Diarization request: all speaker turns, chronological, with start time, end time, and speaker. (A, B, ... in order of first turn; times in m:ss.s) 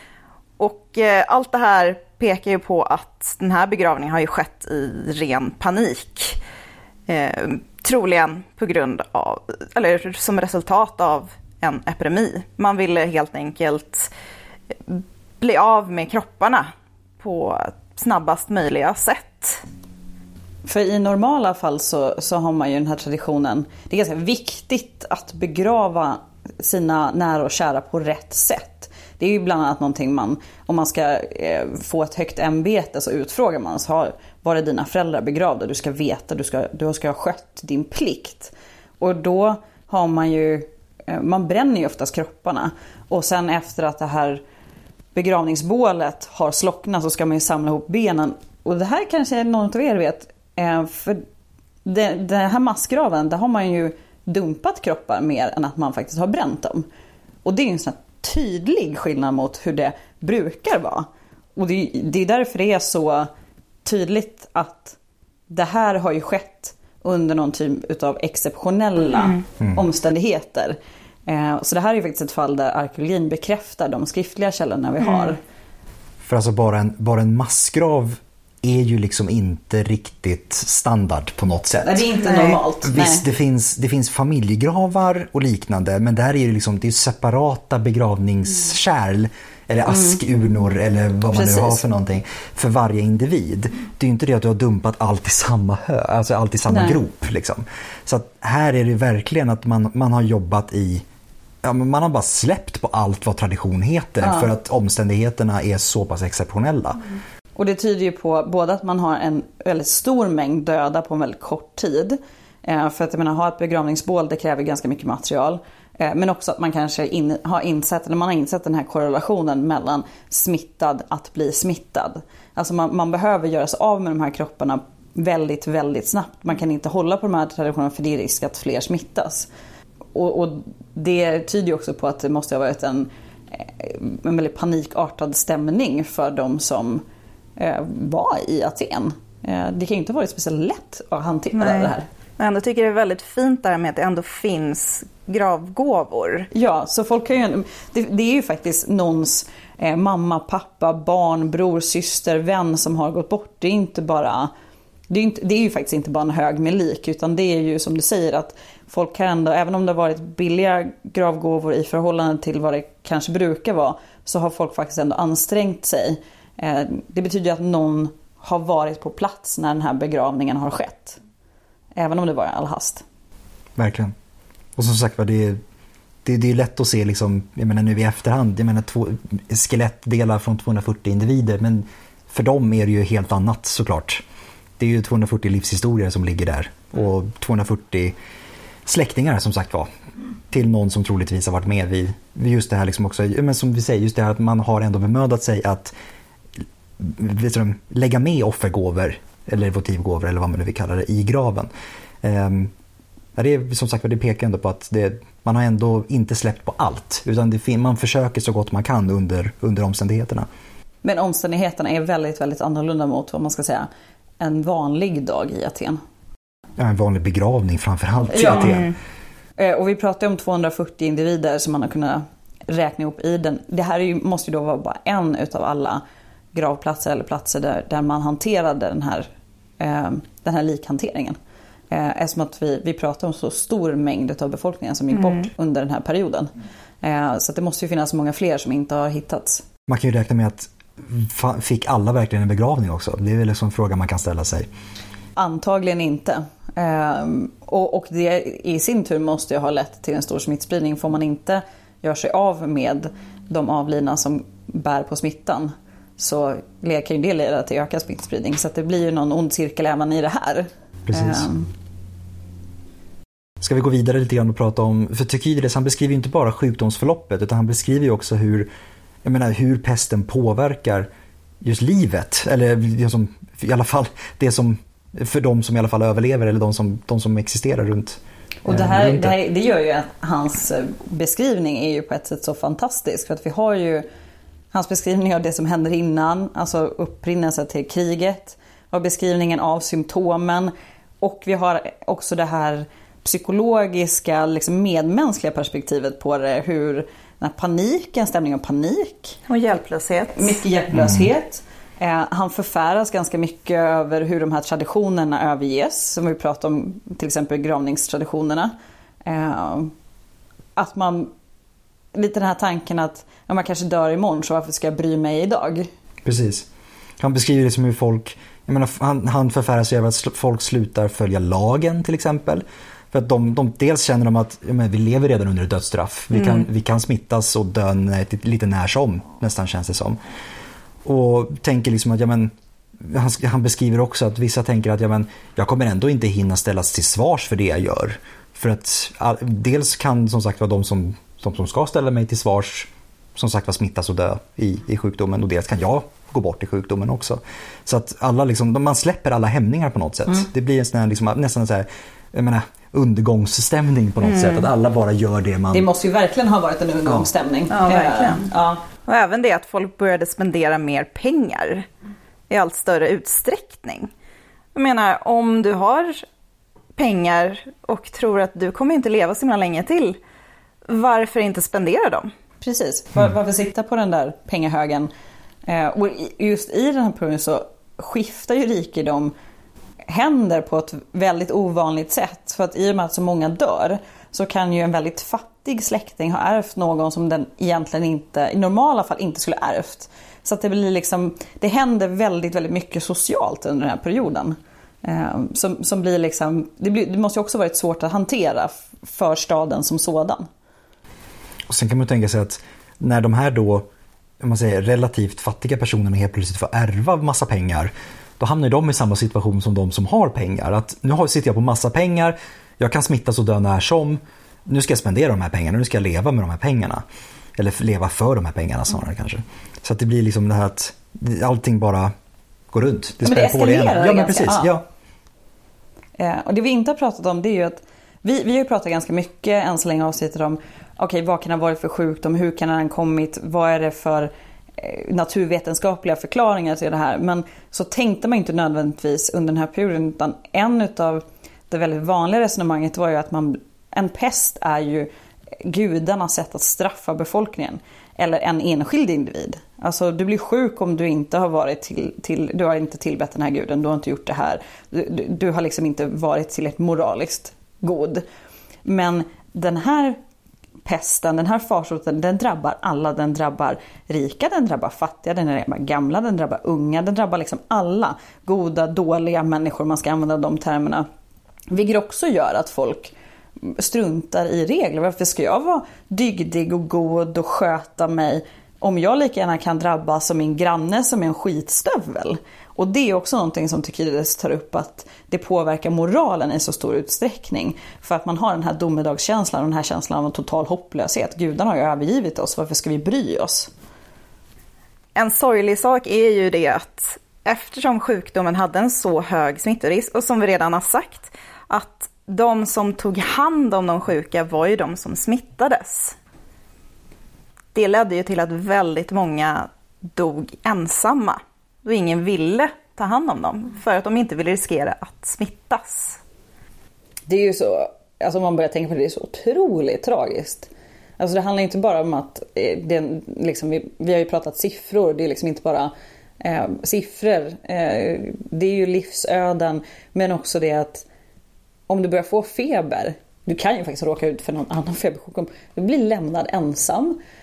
0:00.6-0:06.4 A
0:07.1-0:14.1 A
0:14.9-0:19.6 A
0:20.6-0:44.4 B
0:45.1-0:51.2 B
0:51.8-0:56.9 B
0:57.4-1:03.3 B
1:03.8-1:05.0 B
1:05.5-1:15.4 B
1:16.2-1:41.0 C
1:21.8-1:23.2 B
1:29.9-1:30.2 B
1:31.3-1:31.8 B
1:36.7-1:37.0 B
1:41.6-1:47.0 C
1:44.2-1:44.5 B
1:47.5-2:09.5 B
2:10.1-2:17.0 B
2:17.6-2:22.1 B
2:21.5-2:26.5 A
2:26.5-2:34.5 B
2:35.1-2:51.2 B
2:51.9-2:53.0 B
2:53.8-2:54.1 C
2:54.8-2:55.6 C
2:56.2-3:04.2 C
3:04.8-3:08.1 C
3:08.9-3:09.9 C
3:10.5-3:15.9 C
3:17.0-3:21.7 C
3:22.2-3:22.7 C
3:23.4-3:30.5 C
3:31.0-3:33.9 B
3:34.4-3:36.0 B
3:36.8-3:38.9 C
3:38.3-3:38.8 B
3:39.6-3:46.0 B
3:46.5-3:49.3 B
3:49.8-3:51.4 B
3:51.9-3:56.5 B
3:57.0-3:59.6 B
3:59.9-4:04.7 C
4:05.4-4:21.7 B
4:21.1-4:21.5 C
4:23.6-4:28.7 C
4:29.2-4:31.1 C
4:31.6-4:39.4 C
4:38.6-4:44.1 B
4:44.7-4:59.4 B
4:59.5-5:00.6 A
5:00.4-5:08.7 B
5:00.9-5:01.3 C
5:09.2-5:09.9 B
5:10.8-5:11.3 B
5:12.1-5:15.9 B
5:16.2-5:16.6 C
5:17.2-5:30.2 C
5:31.0-5:55.9 C
5:54.2-5:54.6 A
5:55.7-5:58.8 B
5:57.7-5:58.5 A
5:59.0-6:01.9 A
6:02.5-6:04.1 A
6:04.7-6:06.2 A
6:07.0-6:10.2 A
6:10.9-6:12.3 A
6:12.6-6:15.1 B
6:15.6-6:19.3 B
6:20.1-6:40.5 B
6:41.7-6:43.9 C
6:44.4-6:57.0 C
6:57.6-7:02.1 C
7:02.7-7:04.8 C
7:03.2-7:04.7 B
7:06.2-7:25.1 B
7:25.6-7:38.2 B
7:38.8-7:40.2 B
7:40.8-7:51.1 B
7:51.7-8:13.7 B
8:15.2-8:26.2 A
8:27.8-8:36.2 A
8:37.3-8:51.1 B
8:51.9-8:57.2 B